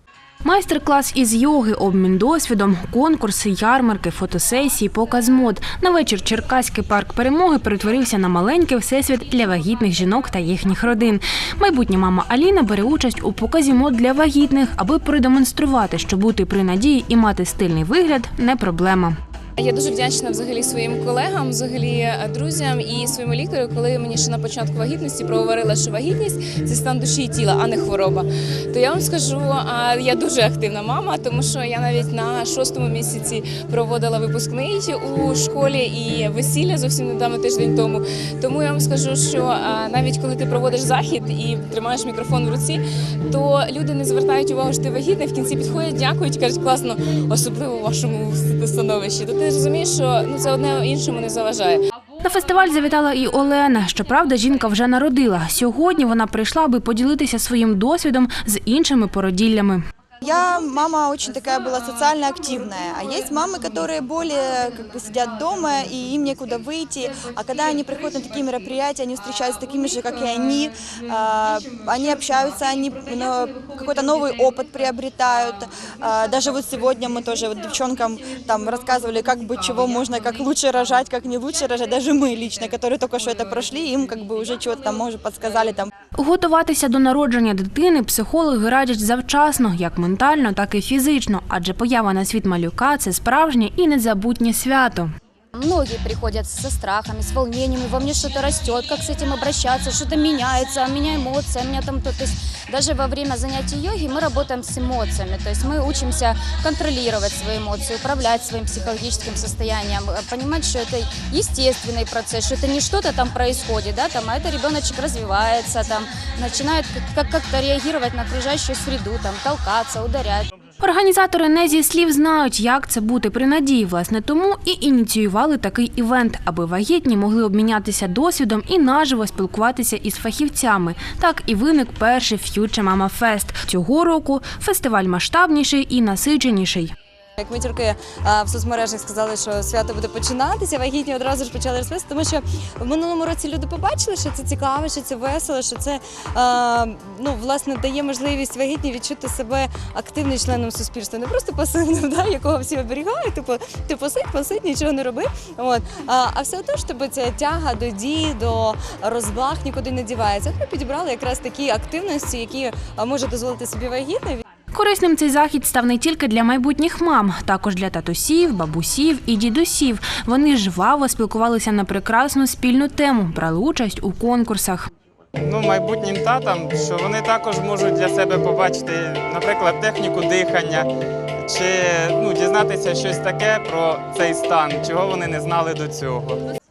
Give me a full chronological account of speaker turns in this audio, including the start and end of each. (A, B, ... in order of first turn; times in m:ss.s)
0:00.4-0:19.2 A
0:19.6-0:51.8 B
0:52.2-0:59.8 A
1:00.2-1:25.9 C
1:26.2-1:35.1 A
1:35.6-2:00.5 D
2:00.8-2:16.9 A
2:17.4-2:44.4 E
2:44.7-2:54.9 A
2:55.4-3:00.9 F
3:01.4-3:06.4 F